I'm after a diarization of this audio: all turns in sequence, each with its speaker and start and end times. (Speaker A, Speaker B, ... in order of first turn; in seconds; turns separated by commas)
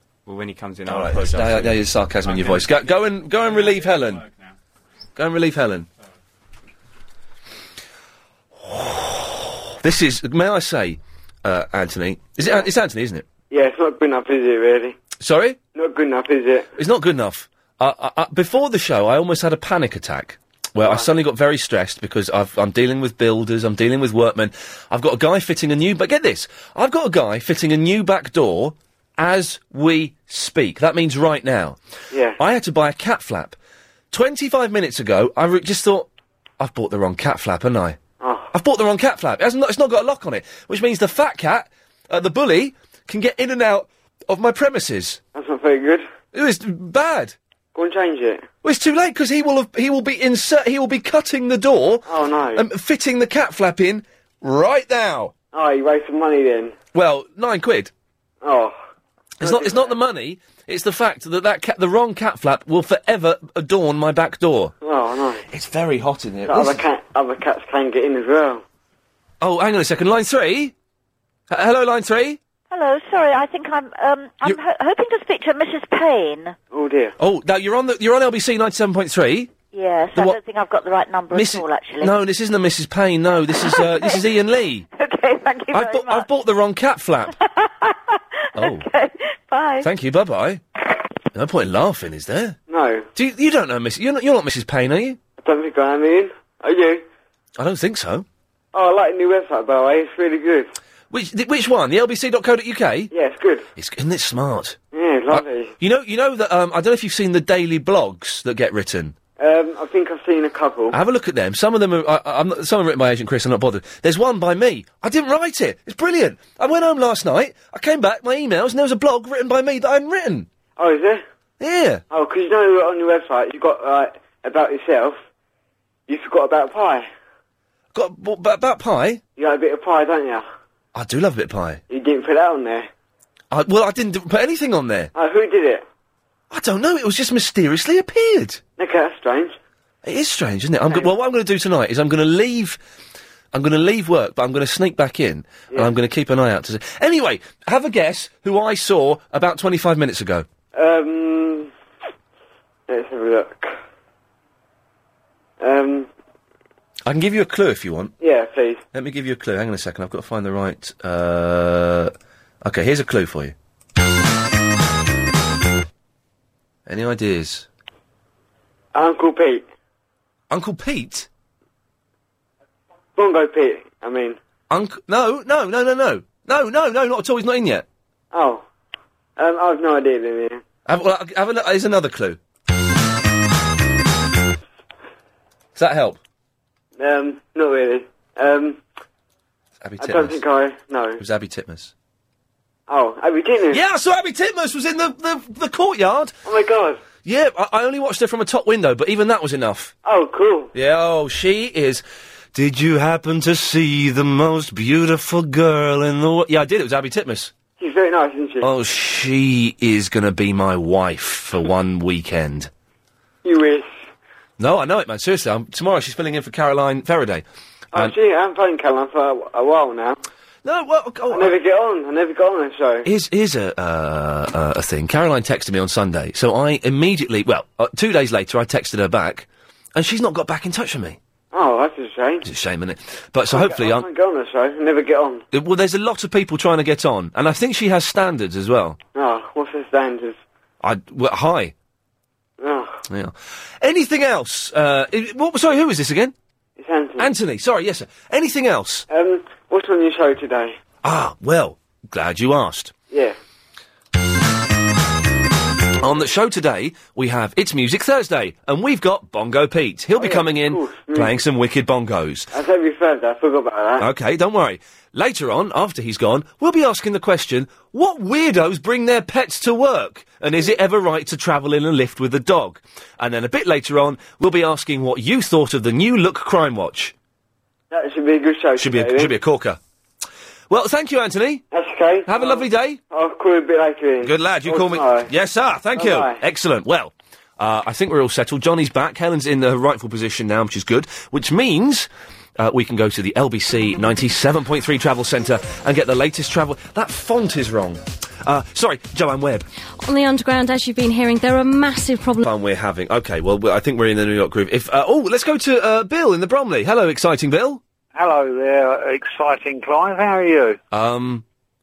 Speaker A: 0.2-2.7, Speaker B: 0.9-4.2, Speaker A: 4.2-4.5, Speaker B: 5.2-5.9, Speaker B: 8.7-13.2, Speaker C: 13.5-14.9, Speaker B: 15.2-15.6, Speaker C: 15.7-16.7, Speaker B: 16.8-31.8, Speaker C: 32.1-32.4, Speaker B: 32.4-33.5, Speaker B: 34.1-36.1, Speaker B: 36.6-38.0, Speaker C: 38.2-38.5, Speaker B: 38.5-45.2, Speaker C: 45.3-46.0, Speaker B: 46.3-47.3, Speaker C: 47.7-48.5, Speaker B: 48.6-55.3, Speaker C: 52.0-52.6, Speaker C: 55.5-56.7, Speaker B: 56.9-57.9, Speaker C: 58.4-58.8, Speaker B: 59.4-64.7, Speaker C: 59.4-59.9, Speaker C: 64.8-65.4, Speaker B: 65.5-66.8, Speaker C: 66.5-68.6, Speaker B: 69.4-70.7, Speaker B: 71.5-72.4, Speaker D: 72.7-76.5, Speaker C: 76.7-77.1, Speaker B: 77.2-79.5, Speaker D: 79.7-82.2, Speaker B: 81.3-84.9, Speaker D: 83.5-84.3, Speaker D: 84.9-86.3, Speaker B: 85.7-87.3, Speaker D: 87.4-89.9, Speaker B: 88.5-88.8, Speaker B: 89.8-90.6, Speaker B: 91.3-92.6, Speaker C: 92.7-93.1, Speaker B: 93.1-95.2, Speaker C: 95.4-97.0, Speaker B: 97.6-98.2, Speaker C: 98.7-100.7, Speaker B: 101.1-103.1, Speaker C: 103.1-103.7, Speaker B: 103.8-104.8, Speaker C: 104.9-105.7, Speaker B: 105.3-109.1, Speaker C: 109.4-111.0, Speaker B: 110.9-120.5, Speaker C: 120.8-121.2, Speaker B: 121.6-122.0, Speaker C: 122.1-125.2, Speaker C: 126.1-127.0, Speaker B: 127.9-129.2, Speaker C: 129.4-130.4, Speaker B: 130.9-131.8, Speaker C: 131.9-132.9, Speaker B: 133.5-135.1, Speaker C: 135.1-135.8, Speaker B: 136.5-138.6, Speaker C: 138.8-139.6, Speaker B: 140.0-142.8, Speaker B: 143.5-150.4, Speaker C: 150.7-151.7, Speaker C: 152.9-153.7, Speaker C: 155.6-156.1, Speaker B: 157.1-158.1, Speaker C: 158.2-158.8, Speaker B: 158.9-163.5, Speaker B: 166.8-167.7, Speaker C: 168.9-169.6, Speaker B: 170.5-171.3, Speaker C: 173.2-174.4, Speaker B: 174.7-177.8, Speaker C: 178.3-178.6, Speaker C: 179.4-180.6, Speaker B: 180.8-182.4, Speaker B: 185.8-186.2, Speaker C: 187.0-188.8, Speaker B: 189.8-190.4, Speaker C: 190.0-191.2, Speaker B: 191.2-191.9, Speaker C: 192.9-193.8, Speaker B: 193.7-196.3, Speaker C: 196.4-197.0, Speaker B: 197.2-199.9, Speaker C: 200.0-200.7, Speaker B: 200.7-202.0, Speaker B: 202.5-207.5, Speaker C: 207.8-208.7, Speaker B: 208.6-212.7, Speaker C: 213.4-213.9, Speaker B: 214.6-218.1, Speaker C: 217.9-220.2, Speaker B: 220.6-221.5, Speaker C: 221.3-223.1, Speaker B: 223.0-231.2, Speaker C: 231.5-232.4, Speaker B: 232.4-234.1, Speaker C: 233.5-235.4, Speaker B: 235.5-239.0, Speaker C: 239.1-240.4, Speaker B: 240.8-241.7, Speaker C: 242.6-243.0, Speaker B: 243.1-246.3, Speaker C: 246.8-247.3, Speaker B: 247.2-249.1, Speaker C: 249.1-250.8, Speaker B: 251.0-252.9, Speaker C: 253.1-253.3, Speaker B: 256.0-262.5, Speaker C: 260.2-261.3, Speaker C: 262.5-264.0, Speaker B: 264.0-277.1, Speaker C: 277.9-279.3, Speaker B: 278.8-279.8, Speaker B: 280.7-281.6, Speaker C: 281.7-285.3, Speaker B: 282.2-283.0, Speaker B: 284.2-299.6, Speaker C: 285.9-286.4, Speaker E: 300.0-302.4, Speaker B: 302.4-307.8, Speaker F: 308.1-310.8, Speaker B: 310.9-311.4